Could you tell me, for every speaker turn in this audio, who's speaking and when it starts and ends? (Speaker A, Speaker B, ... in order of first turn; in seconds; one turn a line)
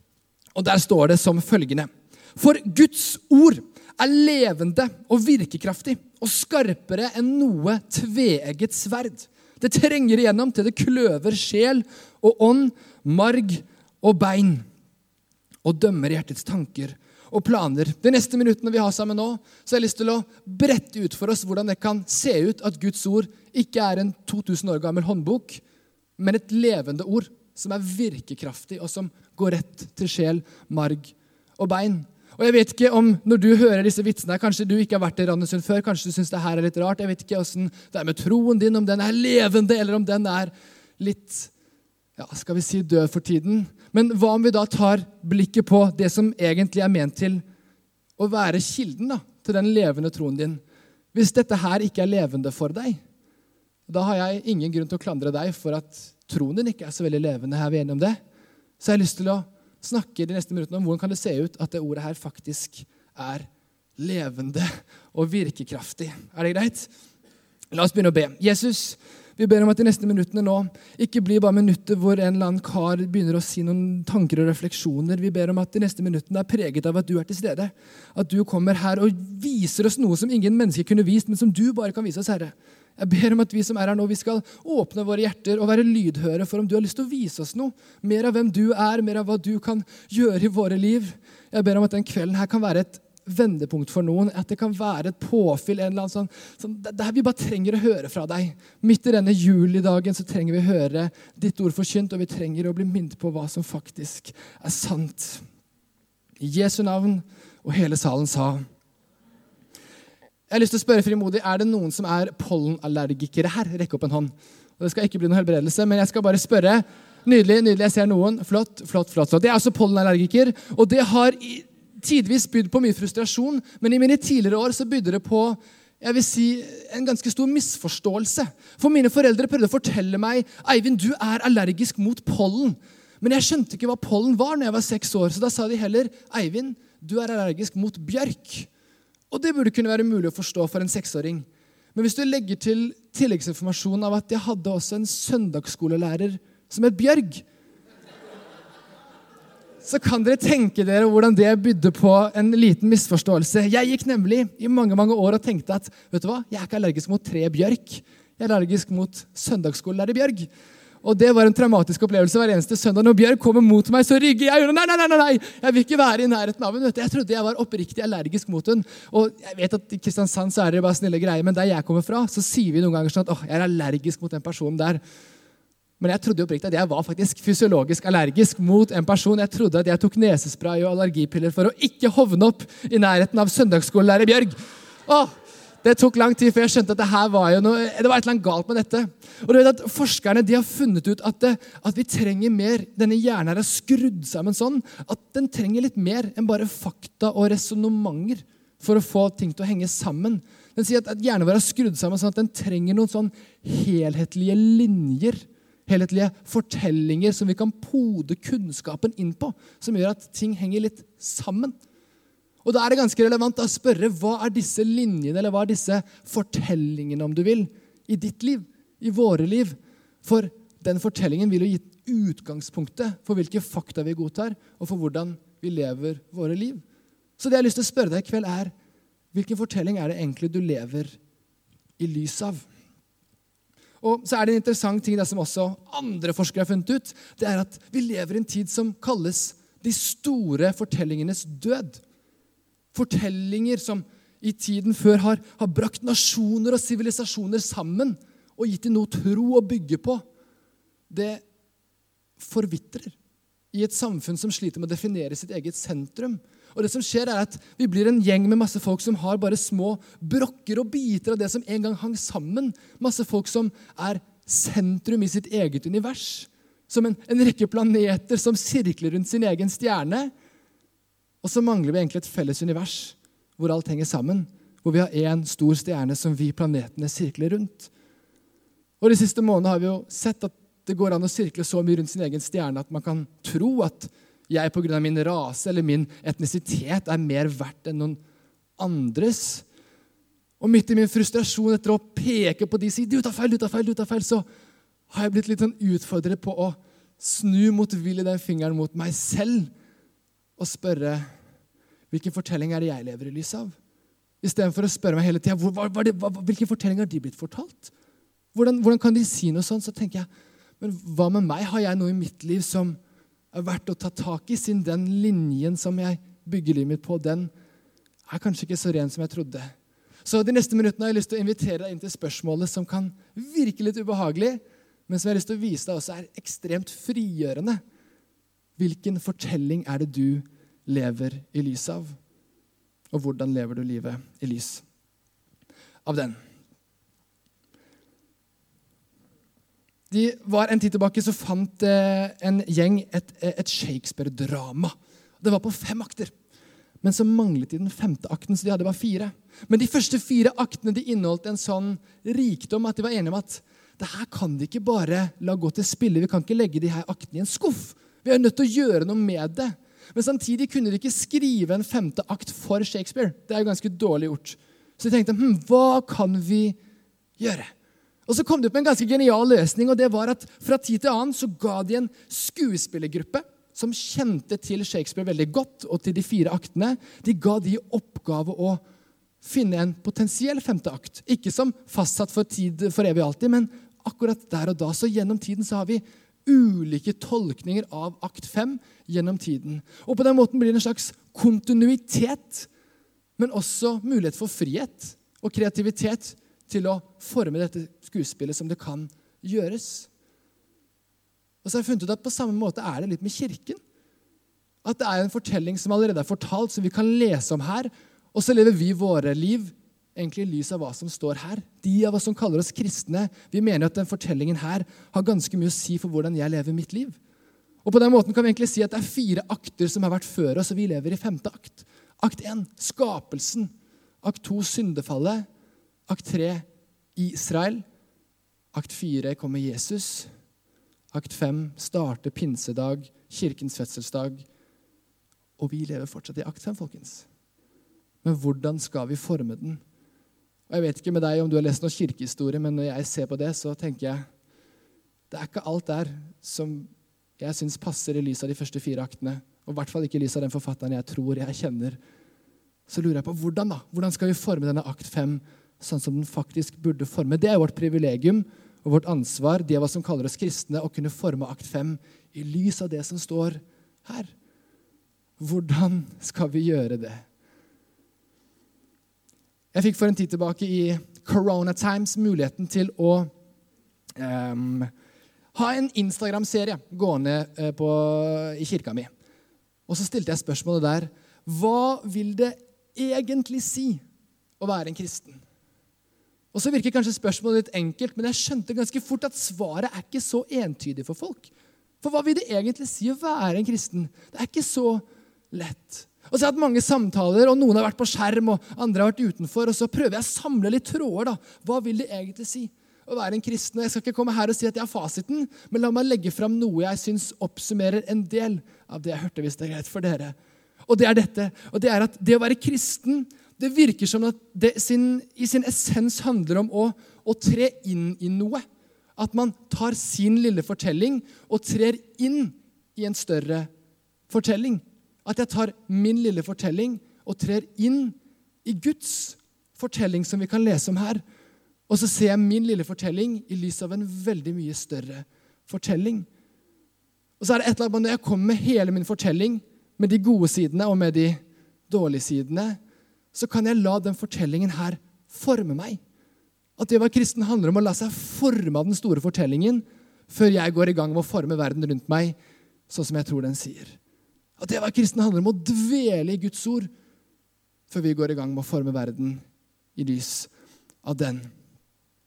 Speaker A: 0.5-14.7
Speaker A: 15.6-25.6
Speaker A: 26.2-41.5
Speaker A: 42.2-47.4
Speaker A: 48.2-50.6
Speaker A: 51.1-53.0
Speaker A: 53.9-58.2
Speaker A: 58.8-66.9
Speaker A: 67.7-105.4
Speaker A: 106.4-108.6
Speaker A: 110.5-138.7
Speaker A: 139.3-147.4
Speaker A: 149.8-160.5
Speaker A: 161.0-175.0
Speaker A: 176.0-211.8
Speaker A: 212.6-226.8
Speaker A: 227.4-228.7
Speaker A: 229.3-231.2
Speaker A: 232.0-232.7
Speaker A: 234.0-242.0
Speaker A: 242.9-250.2
Speaker A: 251.1-251.4
Speaker A: 252.4-253.2
Speaker A: 253.7-270.3
Speaker A: 271.4-277.9
Speaker A: 279.0-288.2
Speaker A: 288.8-289.6
Speaker A: 290.6-294.4
Speaker A: 295.1-299.7
Speaker A: 300.6-301.3
Speaker A: 302.1-303.8
Speaker A: 304.4-307.9
Speaker A: 308.5-310.3
Speaker A: 310.8-313.0
Speaker A: 313.5-317.5
Speaker A: 318.3-319.7
Speaker A: 320.2-327.8
Speaker A: 328.8-332.2
Speaker A: 333.1-334.8
Speaker A: 336.0-336.4
Speaker A: 340.1-346.3
Speaker A: 347.0-366.8
Speaker A: 367.4-367.7
Speaker A: 368.3-378.8
Speaker A: 379.4-392.7
Speaker A: 393.4-400.1
Speaker A: 401.6-403.8
Speaker A: 404.8-417.2
Speaker A: 417.8-425.5
Speaker A: 426.1-427.8
Speaker A: 428.7-430.3
Speaker A: 431.1-434.4
Speaker A: 435.6-437.2
Speaker A: 438.2-439.8
Speaker A: 440.7-444.3
Speaker A: 445.3-452.0
Speaker A: 452.9-464.3
Speaker A: 465.4-467.2
Speaker A: 469.7-473.3
Speaker A: 474.1-474.9
Speaker A: 475.5-479.1
Speaker A: 479.9-484.0
Speaker A: 484.6-485.4
Speaker A: 486.5-491.5
Speaker A: 492.0-510.4
Speaker A: 510.9-518.6
Speaker A: 519.2-523.7
Speaker A: 524.3-531.2
Speaker A: 531.9-536.3
Speaker A: 537.4-542.8
Speaker A: 543.3-546.0
Speaker A: 546.8-552.4
Speaker A: 552.9-554.0
Speaker A: 554.6-556.9
Speaker A: 557.9-559.4
Speaker A: 560.0-560.5
Speaker A: 561.0-561.5